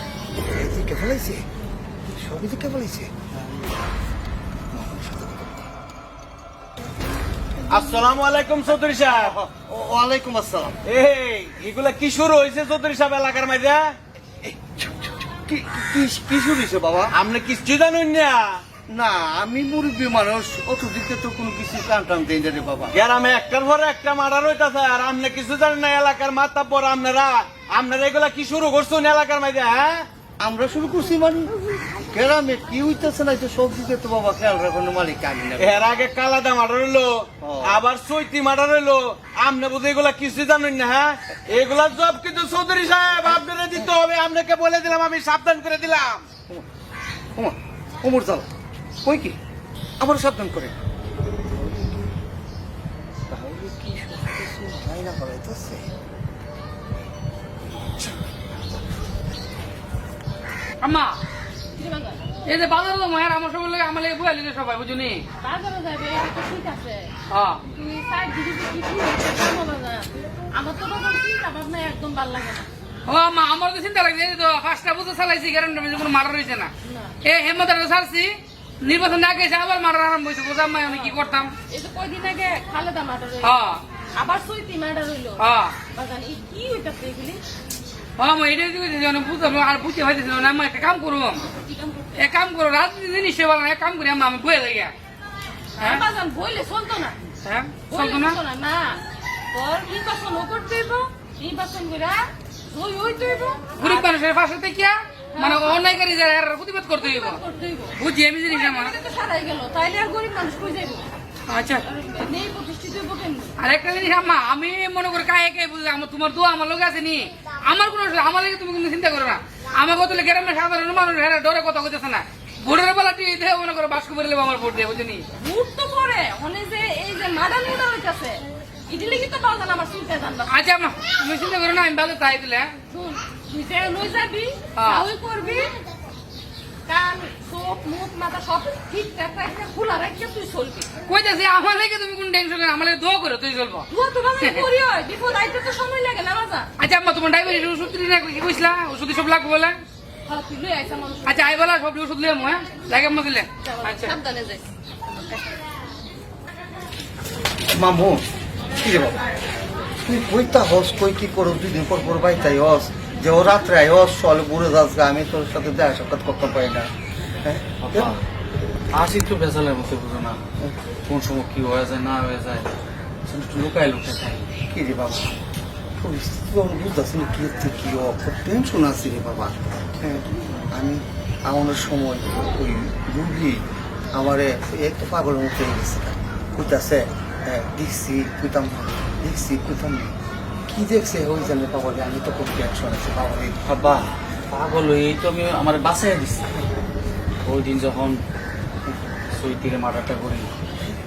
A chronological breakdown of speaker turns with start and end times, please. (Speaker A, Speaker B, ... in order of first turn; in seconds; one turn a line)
Speaker A: 0.4-1.4
Speaker A: 2.1-3.1
Speaker A: 4.7-5.7
Speaker B: 7.7-9.3
Speaker A: 9.0-10.8
Speaker B: 10.8-13.9
Speaker A: 14.4-17.1
Speaker B: 17.1-18.6
Speaker A: 18.9-22.9
Speaker B: 22.9-30.0
Speaker A: 30.4-31.5
Speaker A: 32.1-35.9
Speaker B: 35.6-46.3
Speaker A: 37.4-37.8
Speaker A: 47.4-48.5
Speaker A: 49.0-49.4
Speaker A: 50.0-50.7
Speaker A: 51.5-52.1
Speaker A: 53.3-55.9
Speaker A: 57.8-58.1
Speaker C: 60.8-61.2
Speaker D: 61.8-62.2
Speaker C: 62.5-65.2
Speaker D: 65.4-67.1
Speaker C: 67.3-67.6
Speaker D: 67.7-72.7
Speaker C: 73.1-76.7
Speaker C: 77.2-81.5
Speaker D: 81.7-83.5
Speaker C: 83.4-83.8
Speaker D: 84.2-85.4
Speaker C: 85.4-85.7
Speaker D: 85.9-87.4
Speaker C: 88.2-91.4
Speaker D: 91.5-92.1
Speaker C: 92.2-94.9
Speaker D: 95.8-97.1
Speaker C: 95.8-96.0
Speaker C: 97.4-98.4
Speaker D: 97.9-99.0
Speaker D: 99.5-102.2
Speaker D: 102.7-104.0
Speaker C: 103.8-107.4
Speaker D: 105.3-105.8
Speaker D: 107.0-107.9
Speaker C: 108.0-108.9
Speaker D: 108.5-111.0
Speaker C: 111.5-111.8
Speaker D: 111.9-113.5
Speaker C: 113.6-125.2
Speaker D: 125.4-130.5
Speaker C: 130.5-132.7
Speaker D: 132.9-135.7
Speaker C: 134.8-135.1
Speaker D: 136.9-140.9
Speaker C: 141.1-143.9
Speaker D: 143.9-146.7
Speaker C: 144.4-144.7
Speaker C: 146.8-149.8
Speaker D: 150.3-151.4
Speaker C: 151.2-154.1
Speaker D: 153.7-155.4
Speaker A: 157.7-158.2
Speaker A: 158.8-159.2
Speaker A: 160.0-166.9
Speaker A: 167.4-168.1
Speaker E: 167.8-168.2
Speaker E: 168.9-170.4
Speaker E: 171.1-172.7
Speaker E: 173.3-174.5
Speaker A: 174.7-175.3
Speaker A: 176.0-183.6
Speaker A: 184.1-190.1
Speaker A: 190.7-193.6
Speaker E: 193.6-196.6
Speaker E: 197.4-198.2
Speaker E: 198.9-200.5